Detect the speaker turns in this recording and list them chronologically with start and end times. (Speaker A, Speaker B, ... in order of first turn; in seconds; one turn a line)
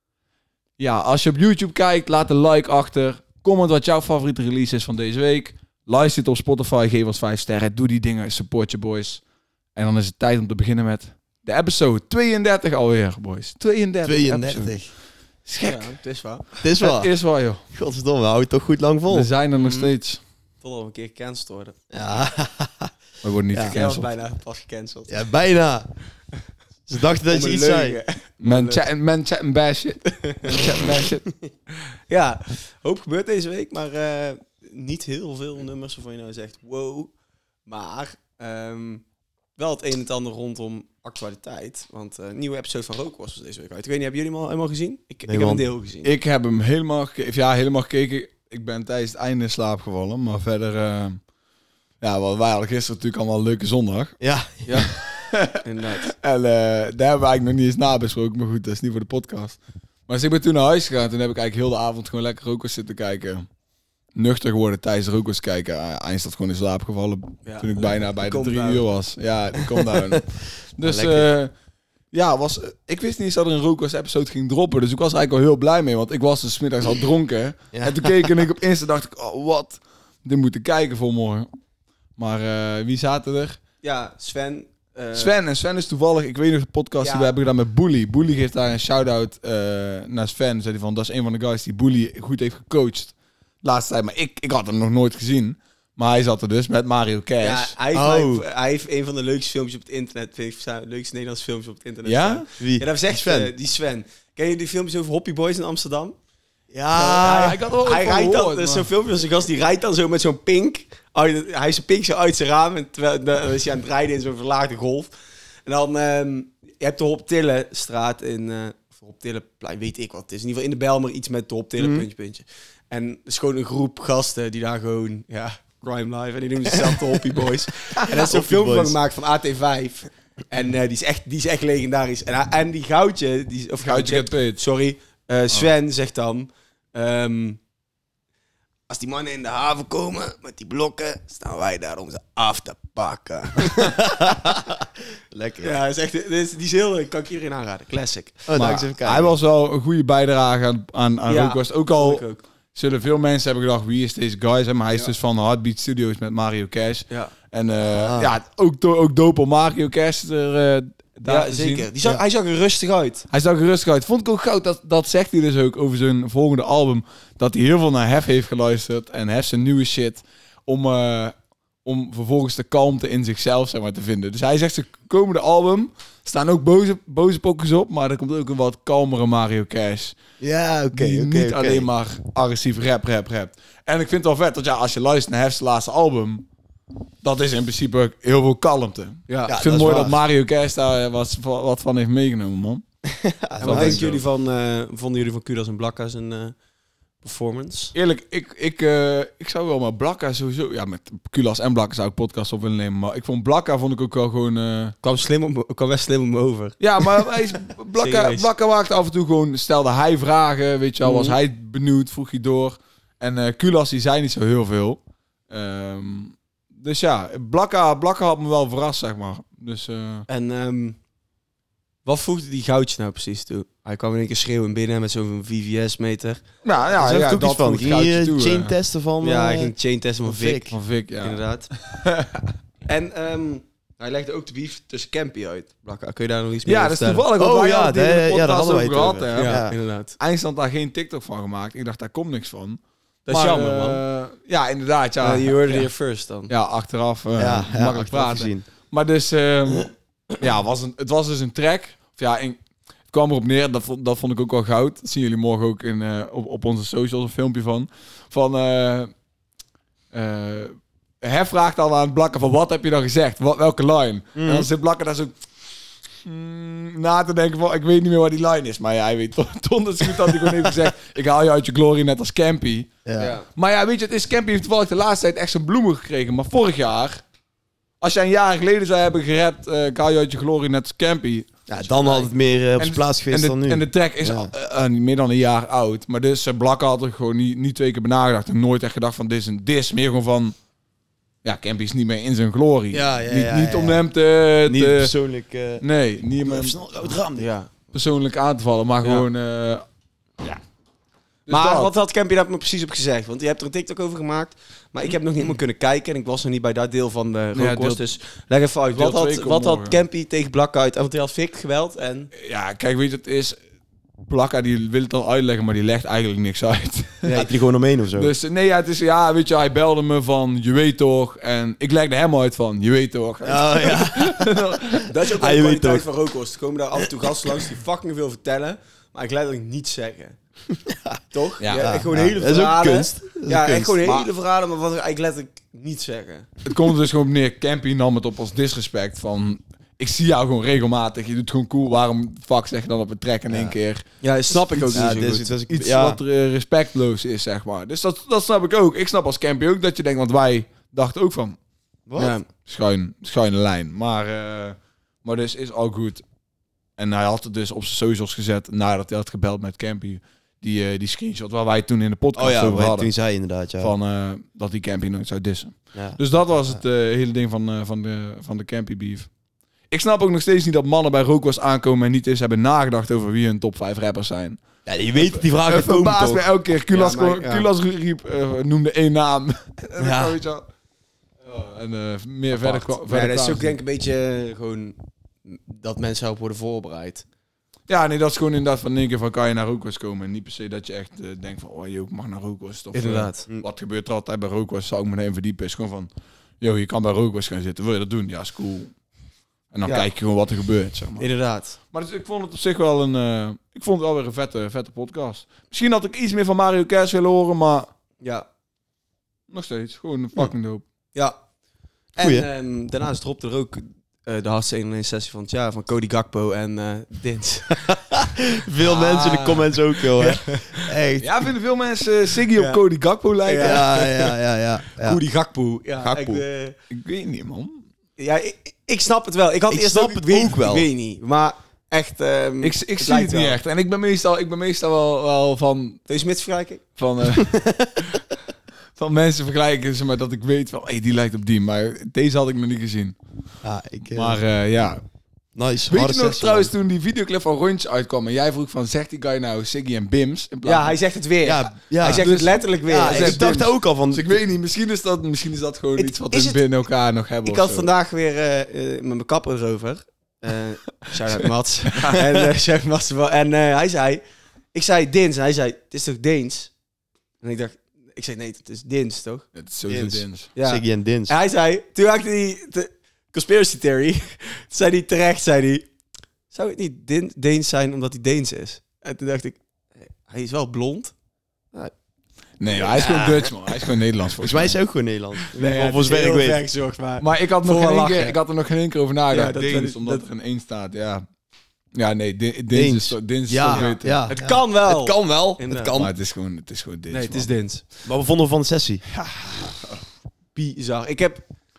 Speaker A: 0.8-9.2
Speaker A: 9.8-14.8
Speaker B: 14.0-14.9
Speaker A: 15.4-15.9
Speaker C: 15.6-16.4
Speaker B: 16.6-17.1
Speaker A: 16.8-17.6
Speaker B: 17.7-19.3
Speaker A: 19.1-20.2
Speaker C: 19.6-19.9
Speaker C: 20.6-21.8
Speaker B: 21.9-22.9
Speaker A: 23.2-24.1
Speaker C: 23.7-25.2
Speaker B: 25.1-25.9
Speaker B: 26.9-28.0
Speaker C: 27.3-28.8
Speaker A: 28.4-31.2
Speaker C: 30.2-30.5
Speaker C: 32.1-37.1
Speaker C: 37.6-39.0
Speaker C: 39.6-46.1
Speaker B: 45.3-45.6
Speaker A: 46.0-51.2
Speaker A: 52.0-54.1
Speaker B: 54.2-54.6
Speaker C: 54.6-54.9
Speaker A: 54.9-63.5
Speaker C: 55.5-56.1
Speaker A: 64.1-71.5
Speaker C: 67.4-68.8
Speaker B: 69.7-70.2
Speaker B: 70.8-71.3
Speaker A: 72.1-81.5
Speaker B: 77.7-78.3
Speaker A: 82.2-83.6
Speaker C: 83.8-85.3
Speaker A: 85.1-97.7
Speaker C: 87.0-87.3
Speaker C: 97.4-106.2
Speaker B: 97.9-98.4
Speaker A: 102.0-102.5
Speaker B: 102.6-103.5
Speaker B: 106.7-107.6
Speaker C: 106.9-115.1
Speaker A: 107.2-108.9
Speaker C: 115.7-137.6
Speaker B: 121.8-122.1
Speaker B: 128.1-129.0
Speaker A: 133.8-134.6
Speaker C: 138.9-144.6
Speaker B: 143.8-145.8
Speaker C: 145.6-148.4
Speaker B: 148.4-149.3
Speaker A: 148.5-161.9
Speaker C: 151.3-152.4
Speaker B: 157.9-158.3
Speaker C: 161.3-163.2
Speaker A: 163.3-171.3
Speaker A: 171.8-180.2
Speaker B: 180.4-181.9
Speaker A: 180.9-186.4
Speaker A: 187.2-192.8
Speaker C: 189.3-189.6
Speaker B: 189.5-190.2
Speaker B: 193.2-194.0
Speaker C: 193.6-196.5
Speaker A: 193.6-194.2
Speaker C: 197.2-197.9
Speaker A: 197.9-204.9
Speaker C: 205.0-207.3
Speaker A: 206.8-220.2
Speaker C: 207.9-208.5
Speaker C: 211.0-211.4
Speaker C: 220.3-221.0
Speaker C: 222.0-226.4
Speaker A: 226.6-228.7
Speaker B: 226.9-229.7
Speaker C: 229.2-231.7
Speaker B: 230.2-230.6
Speaker A: 230.7-232.5
Speaker C: 232.9-237.2
Speaker A: 236.6-245.9
Speaker B: 237.4-239.8
Speaker C: 239.3-240.1
Speaker C: 243.3-244.0
Speaker C: 245.2-246.5
Speaker A: 246.5-252.6
Speaker B: 247.4-248.6
Speaker A: 253.1-259.1
Speaker A: 260.1-265.3
Speaker B: 264.4-264.7
Speaker A: 266.2-277.2
Speaker B: 273.1-273.3
Speaker C: 273.2-273.4
Speaker A: 278.0-282.2
Speaker B: 281.7-284.5
Speaker A: 282.8-290.5
Speaker A: 291.4-295.1
Speaker B: 292.9-294.0
Speaker B: 294.6-295.8
Speaker A: 295.8-297.1
Speaker B: 296.4-297.5
Speaker C: 297.4-297.7
Speaker A: 297.9-299.8
Speaker A: 301.5-301.9
Speaker C: 301.5-312.3
Speaker A: 307.5-308.0
Speaker A: 308.9-310.0
Speaker A: 312.4-313.6
Speaker A: 314.3-317.4
Speaker C: 317.2-317.5
Speaker B: 317.3-318.3
Speaker A: 318.1-325.1
Speaker B: 323.4-326.1
Speaker C: 325.1-330.4
Speaker B: 330.9-331.2
Speaker C: 331.3-336.5
Speaker A: 331.6-332.1
Speaker B: 331.8-334.0
Speaker A: 336.6-344.0
Speaker B: 343.5-343.8
Speaker C: 344.2-345.5
Speaker B: 344.9-346.2
Speaker A: 345.7-351.6
Speaker B: 352.1-352.3
Speaker C: 352.2-352.4
Speaker A: 352.6-356.2
Speaker A: 357.0-363.1
Speaker B: 362.3-363.9
Speaker A: 363.8-369.3
Speaker A: 369.9-374.6
Speaker B: 374.9-376.4
Speaker A: 375.1-380.6
Speaker C: 376.9-377.7
Speaker B: 380.0-380.4
Speaker A: 381.4-383.8
Speaker C: 382.7-387.2
Speaker A: 387.9-398.9
Speaker C: 392.9-393.4
Speaker A: 399.7-401.3
Speaker C: 401.2-401.8
Speaker A: 401.9-407.9
Speaker C: 408.2-408.4
Speaker A: 409.5-410.8
Speaker C: 412.1-417.9
Speaker B: 412.2-412.4
Speaker B: 418.1-421.4
Speaker C: 418.8-420.9
Speaker A: 421.2-423.9
Speaker C: 423.4-424.3
Speaker B: 423.6-425.2
Speaker C: 425.0-426.8
Speaker B: 426.0-426.4
Speaker A: 426.9-427.8
Speaker C: 428.2-433.6
Speaker B: 429.7-430.9
Speaker A: 432.6-436.0
Speaker C: 436.1-436.8
Speaker A: 437.0-437.6
Speaker B: 437.4-438.0
Speaker A: 438.9-443.1
Speaker B: 443.6-444.4
Speaker A: 444.1-445.0
Speaker B: 445.5-446.7
Speaker A: 445.9-451.0
Speaker C: 450.6-453.4
Speaker B: 451.4-452.2
Speaker A: 452.0-457.9
Speaker B: 452.9-454.2
Speaker C: 456.0-456.6
Speaker C: 457.4-464.2
Speaker A: 461.9-462.2
Speaker C: 464.7-466.7
Speaker C: 467.4-469.4
Speaker A: 469.5-470.5
Speaker B: 469.9-471.3
Speaker C: 470.6-475.9
Speaker C: 476.5-481.1
Speaker A: 482.6-484.7
Speaker B: 482.8-483.5
Speaker B: 484.4-486.6
Speaker C: 485.5-488.4
Speaker A: 487.2-491.2
Speaker C: 489.3-490.2
Speaker A: 491.9-494.3
Speaker B: 492.7-496.1
Speaker C: 493.7-495.9
Speaker A: 495.9-497.5
Speaker C: 497.1-497.9
Speaker B: 498.1-499.0
Speaker A: 499.1-500.0
Speaker C: 500.5-501.4